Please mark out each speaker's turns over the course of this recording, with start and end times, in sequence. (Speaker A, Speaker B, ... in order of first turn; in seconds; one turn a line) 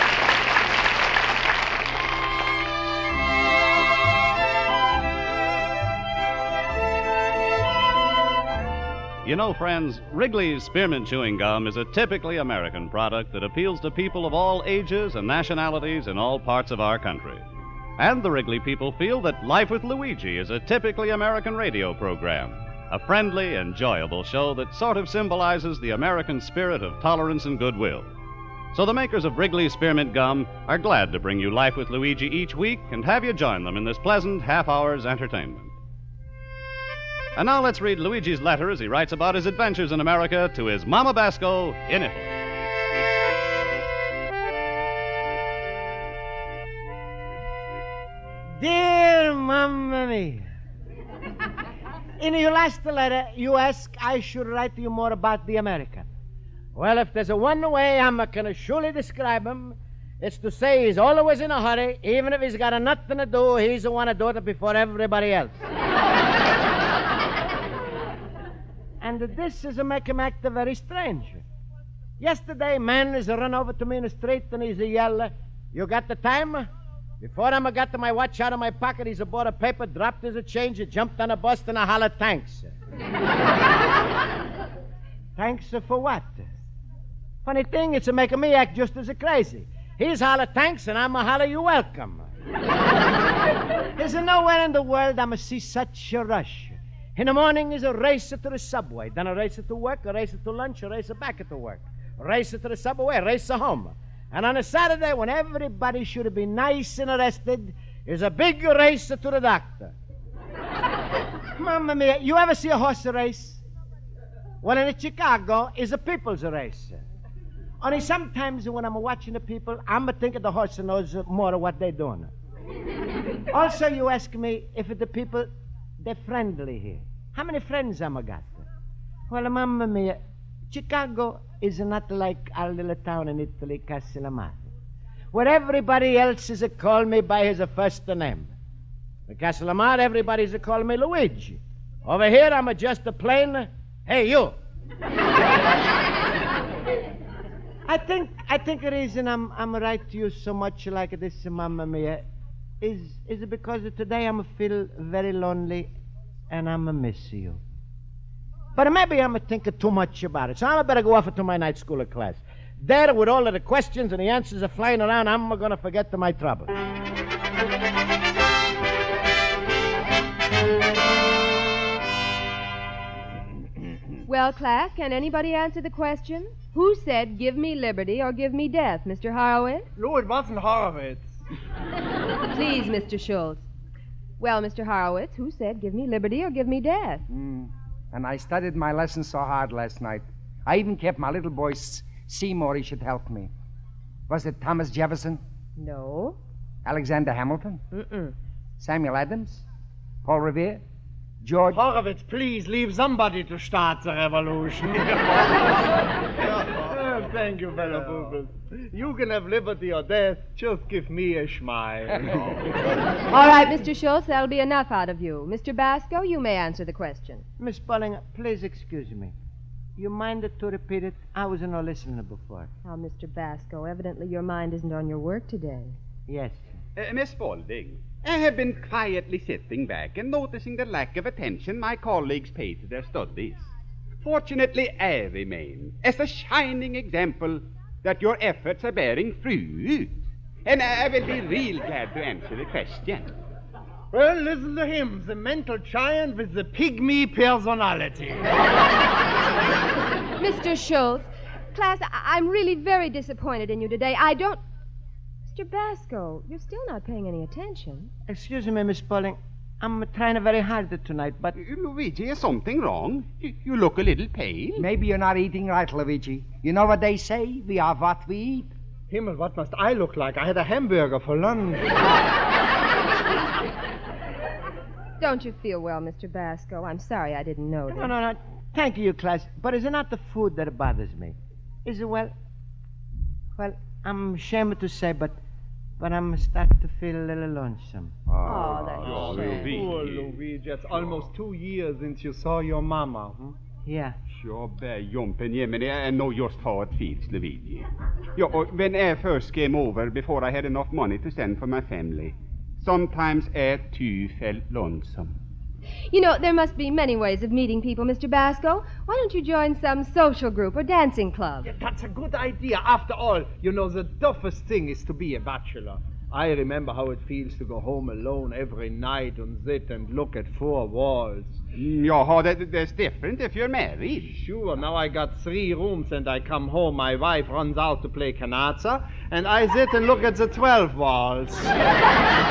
Speaker A: 9.2-17.4
Speaker A: 18.0-28.1
Speaker A: 28.7-35.7
Speaker A: 37.4-42.4
Speaker B: 48.5-50.5
Speaker B: 52.2-56.1
Speaker B: 56.8-65.7
Speaker B: 69.0-71.4
Speaker B: 72.2-76.7
Speaker B: 77.2-82.7
Speaker B: 85.4-86.5
Speaker B: 87.4-92.3
Speaker B: 94.0-109.9
Speaker B: 111.6-113.6
Speaker B: 114.6-117.0
Speaker B: 117.8-122.3
Speaker B: 123.5-125.5
Speaker B: 126.0-128.7
Speaker B: 129.3-134.7
Speaker B: 135.3-138.5
Speaker B: 139.3-144.6
Speaker B: 147.9-152.2
Speaker B: 152.8-155.9
Speaker B: 156.5-157.6
Speaker B: 158.8-166.7
Speaker C: 174.3-179.9
Speaker D: 180.0-181.4
Speaker C: 182.5-183.6
Speaker C: 184.4-187.2
Speaker E: 187.3-193.5
Speaker E: 194.3-195.4
Speaker C: 195.8-196.4
Speaker E: 196.8-197.8
Speaker C: 197.9-198.3
Speaker E: 198.8-199.6
Speaker E: 200.2-200.8
Speaker E: 201.4-201.8
Speaker D: 201.7-205.3
Speaker D: 206.8-212.6
Speaker E: 208.0-208.3
Speaker C: 213.3-217.4
Speaker B: 217.6-219.3
Speaker B: 220.0-222.7
Speaker C: 222.8-226.0
Speaker B: 226.3-226.6
Speaker F: 227.0-233.7
Speaker F: 234.2-243.3
Speaker D: 244.1-248.5
Speaker C: 250.4-254.6
Speaker C: 255.5-258.1
Speaker B: 258.3-261.6
Speaker F: 261.6-264.9
Speaker E: 264.8-268.7
Speaker D: 269.1-272.0
Speaker C: 275.2-278.1
Speaker B: 277.9-282.3
Speaker B: 283.6-285.4
Speaker B: 286.0-288.1
Speaker F: 288.3-290.4
Speaker E: 288.4-289.7
Speaker C: 288.5-289.7
Speaker D: 288.5-293.6
Speaker B: 293.9-294.2
Speaker F: 294.4-305.4
Speaker C: 306.1-311.7
Speaker D: 311.6-321.6
Speaker F: 321.8-324.4
Speaker D: 324.3-331.8